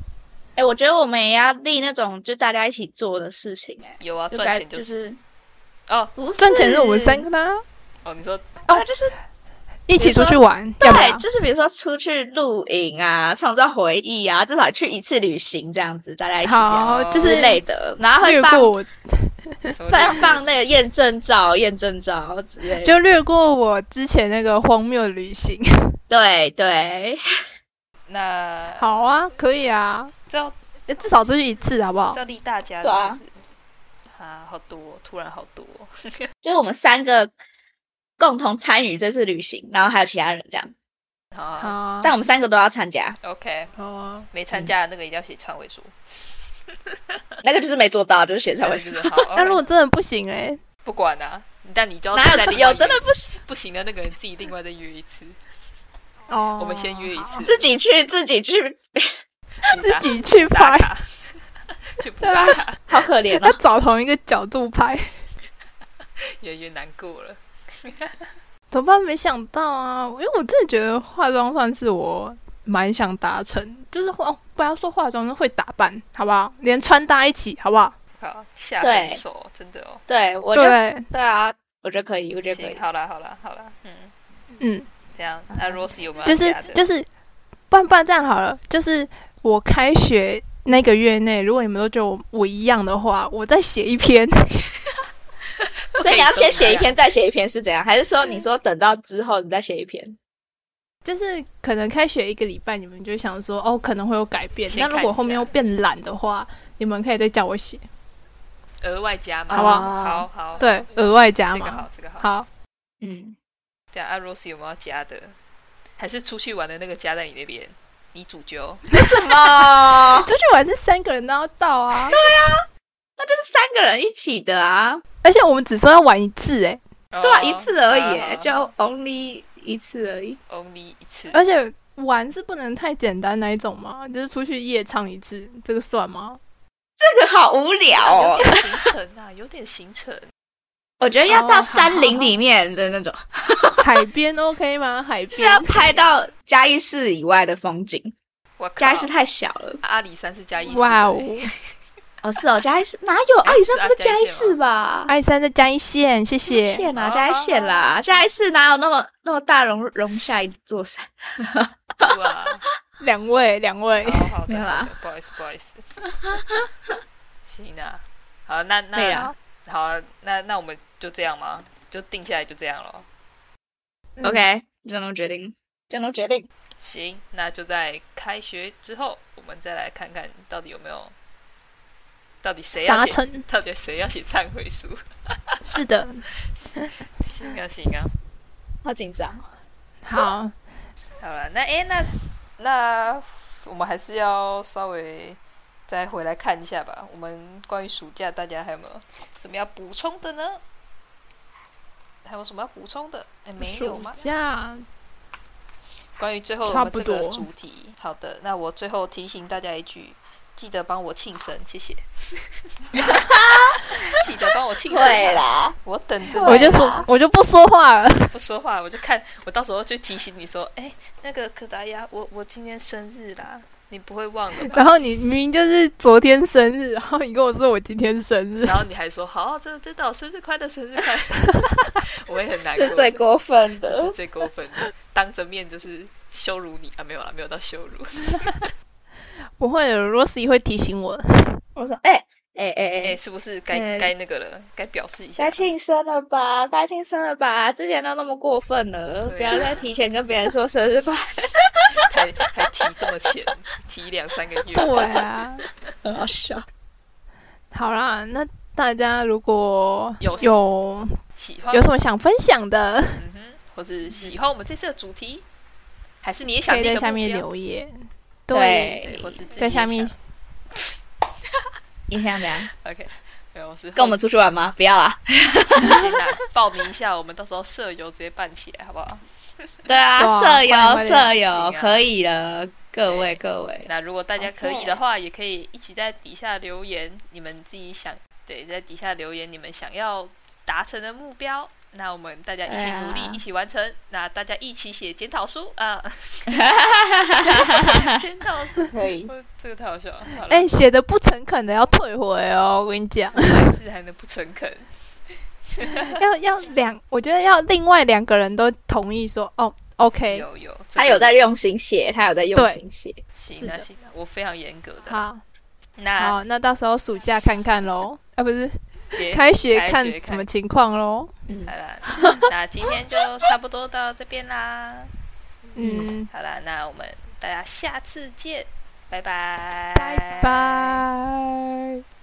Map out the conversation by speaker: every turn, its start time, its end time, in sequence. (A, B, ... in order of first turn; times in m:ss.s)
0:00.6-0:05.2 A
0:04.0-0:05.0 B
0:05.9-0:06.1 B
0:06.2-0:07.2 A
0:06.4-0:07.6 C
0:08.0-0:08.6 B
0:08.7-0:09.1 A
0:09.9-0:11.2 C
0:10.0-0:18.7 A
0:16.4-0:17.6 C
0:16.8-0:17.5 B
0:18.2-0:19.5 C
0:19.6-0:20.5 B
0:19.9-0:22.9 A
0:22.7-0:26.0 C
0:26.1-0:27.2 A
0:28.1-0:28.9 B
0:28.8-0:30.1 C
0:30.3-0:30.6 B
0:30.9-0:32.2 C
0:32.1-0:33.4 B
0:32.8-0:33.2 A
0:34.1-0:35.9 B
0:36.4-0:37.3 A
0:38.2-0:40.7 A
0:41.3-0:41.7 B
0:41.6-0:42.1 C
0:42.0-0:43.2 A
0:43.2-0:43.7 B
0:43.8-0:44.3 C
0:44.3-0:45.9 B
0:47.4-0:49.1 A
0:48.6-0:49.6 B
0:49.3-0:50.6 C
0:50.8-0:55.4 B
0:52.1-0:53.3 A
0:56.3-0:57.5 C
0:56.6-0:57.6 B
0:57.4-0:59.1 A
0:59.6-1:02.9 B
0:59.7-1:00.9 C
1:02.2-1:02.6 C
1:02.2-1:03.6 A
1:03.3-1:05.2 C
1:06.4-1:08.2 B
1:08.7-1:17.9 C
1:18.2-1:20.0 B
1:18.8-1:19.2 A
1:20.1-1:22.8 A
1:20.5-1:21.0 C
1:22.5-1:24.1 B
1:24.6-1:24.9 C
1:25.1-1:26.8 B
1:26.2-1:27.1 C
1:27.7-1:34.6 C
1:35.6-1:37.0 B
1:36.0-1:40.2 A
1:41.0-1:47.8 C
1:44.7-1:45.5 B
1:48.8-1:52.3 B
1:49.5-1:49.9 C
1:49.5-1:50.3 A
1:50.6-1:52.5 C
1:53.0-1:53.4 A
1:53.9-1:55.4 B
1:56.0-1:58.8 B
1:58.9-2:00.3 A
1:59.1-2:02.2 C
2:02.1-2:02.6 A
2:03.2-2:05.0 A
2:05.2-2:06.8 C
2:07.1-2:08.7 B
2:07.2-2:10.4 A
2:10.5-2:11.4 B
2:11.3-2:16.4 C
2:17.0-2:18.6 A
2:18.0-2:20.3 B
2:21.0-2:23.8 A
2:21.3-2:22.3 C
2:23.8-2:26.0 C
2:25.3-2:28.1 A
2:28.6-2:29.1 B
2:28.8-2:29.8 A
2:29.8-2:31.5 B
2:30.7-2:31.5 C
2:32.2-2:35.1 A
2:33.4-2:34.6 B
2:35.1-2:36.9 C
2:36.5-2:42.1 A
2:36.9-2:38.0 B
2:42.0-2:42.6 B
2:43.0-2:44.3 C
2:44.0-2:45.8 B
2:44.5-2:44.9 A
2:46.2-2:46.9 A
2:47.4-2:53.0 B
2:49.0-2:49.3 A
2:54.2-2:54.4 C
2:54.2-2:56.5 A
2:56.8-3:01.1 B
3:02.4-3:05.6 B
3:02.8-3:03.4 C
3:05.7-3:06.2 C
3:06.5-3:08.1 B
3:08.8-3:09.5 A
3:10.0-3:10.5 C
3:11.2-3:20.6 B
3:22.2-3:24.2 B
3:23.6-3:24.8 C
3:26.2-3:32.4 B
3:26.6-3:27.4 C
3:33.0-3:33.2 B
3:33.0-3:33.8 A
3:33.8-3:37.0 B
3:34.9-3:35.8 A
3:36.3-3:37.1 A
3:36.4-3:38.3 C
3:38.3-3:44.9 B
3:44.7-3:48.8 C
3:48.6-3:53.2 B
3:52.7-3:54.1 A
3:53.8-3:58.7 B
3:59.6-4:01.6 C
4:01.8-4:03.2 A
4:03.0-4:05.7 B
4:03.7-4:04.1 A
4:05.4-4:11.8 A
4:09.2-4:09.8 B
4:11.9-4:15.1 B
4:14.7-4:15.6 C
4:16.0-4:16.7 A
4:17.7-4:21.2 C
4:20.2-4:20.6 B
4:21.4-4:21.9 B
4:21.7-4:23.2 C
4:23.2-4:25.4 B
4:26.2-4:27.4 B
4:26.7-4:30.2 C
4:28.5-4:29.4 A
4:29.1-4:30.2 B
4:32.1-4:32.7 A
4:32.7-4:34.2 B
4:34.0-4:36.0 A
4:35.6-4:39.2 B
4:39.9-4:43.9 A
4:40.2-4:41.3 C
4:41.3-4:42.0 B
4:43.0-4:56.8 B
4:44.4-4:45.0 A
4:52.7-4:53.4 A
4:56.5-4:58.2 A
4:57.4-5:00.7 B
4:58.9-4:59.3 A
5:00.4-5:03.7 C
5:03.3-5:04.9 B
5:05.7-5:06.2 B
5:06.2-5:10.4 C
5:10.3-5:11.4 B
5:11.0-5:13.2 A
5:12.5-5:12.8 C
5:13.3-5:15.2 B
5:13.5-5:13.8 C
5:15.1-5:15.4 C
5:16.0-5:16.4 B
5:16.2-5:21.3 C
5:19.1-5:20.4 B
5:21.5-5:22.5 A
5:21.7-5:25.1 B
5:25.7-5:26.3 C
5:25.8-5:26.1 A
5:26.3-5:31.0 B
5:29.9-5:32.0 C